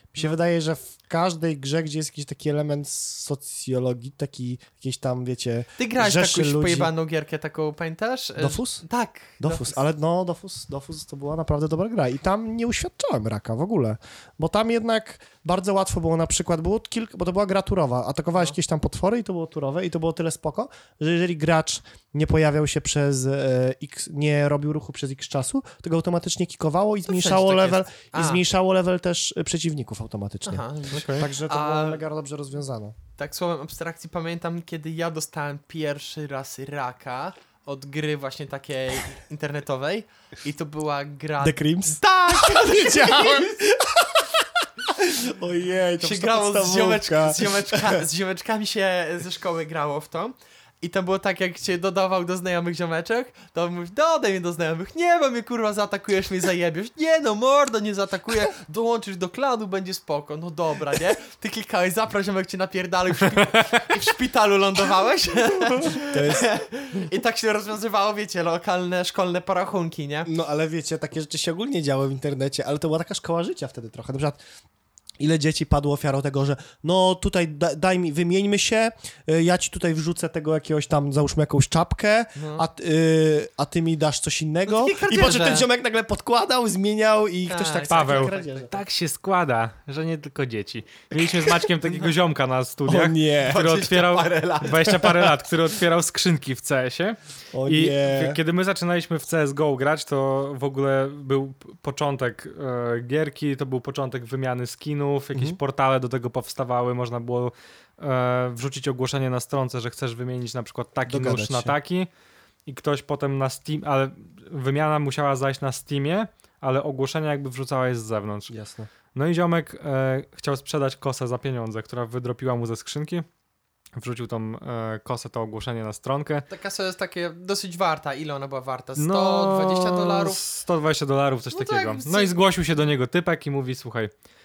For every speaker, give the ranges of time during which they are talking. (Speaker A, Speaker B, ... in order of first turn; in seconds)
Speaker A: 0.1-6.9, 8.4-8.8, 9.4-32.9, 41.4-48.0, 65.9-66.5, 70.2-74.4, 75.2-88.7, 92.9-93.7, 97.5-98.4, 111.1-111.8, 118.5-118.9
Speaker B: 5.8-9.8, 27.1-28.4, 30.4-32.0, 33.2-43.6, 46.0-70.3, 82.3-82.7, 84.7-85.7, 87.5-88.6, 93.4-95.0, 126.5-130.4, 131.5-132.3
Speaker C: 30.9-31.2, 87.9-112.1, 112.7-118.5, 119.1-123.2, 124.0-126.5, 129.0-134.1